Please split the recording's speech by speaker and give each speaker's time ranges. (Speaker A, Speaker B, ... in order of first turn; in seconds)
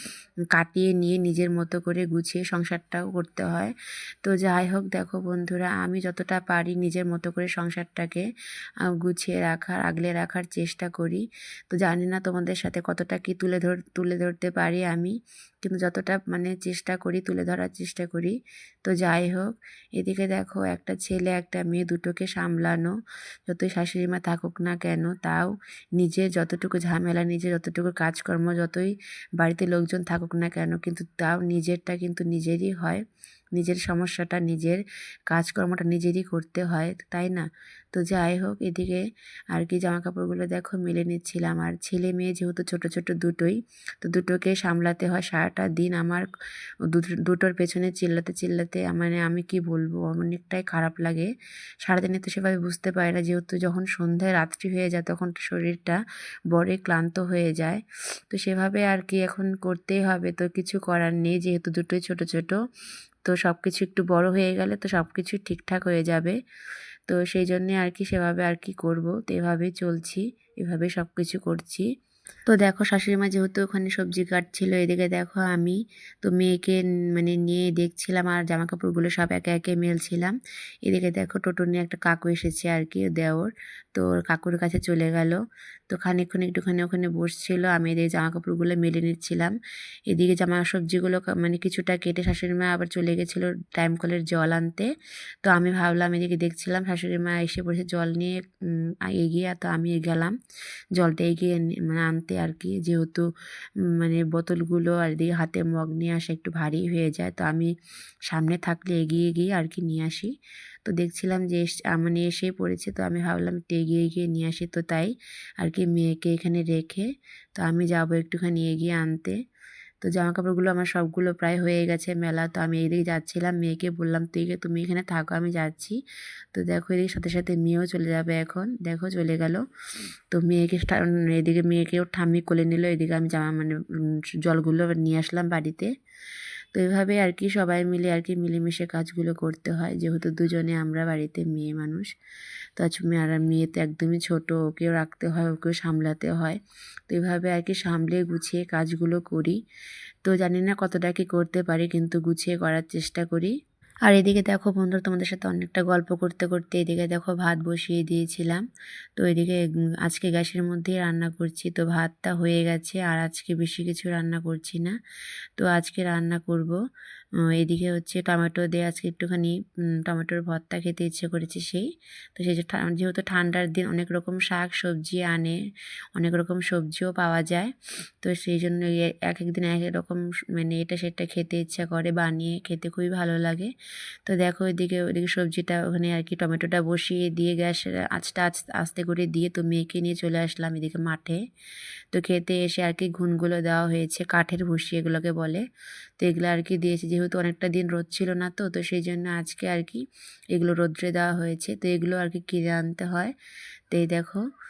Speaker A: 0.5-3.7, 4.2-8.3, 9.0-22.9, 23.5-33.0, 33.6-46.3, 46.9-51.3, 51.8-56.0, 56.5-62.6, 63.3-66.4, 67.1-71.9, 72.5-89.5, 90.1-94.9, 95.4-98.3, 99.1-100.3, 101.0-103.2, 104.0-107.7, 108.3-110.3, 110.8-119.4, 120.0-126.0, 126.5-129.6, 130.3-133.8, 134.4-135.9, 136.7-142.1, 142.8-149.6, 150.2-153.5, 154.1-158.6, 159.2-164.9, 165.6-166.8, 167.6-175.6, 176.2-177.7, 178.2-183.7, 184.3-191.4, 192.1-195.6, 196.2-200.0, 200.5-203.3, 203.9-204.4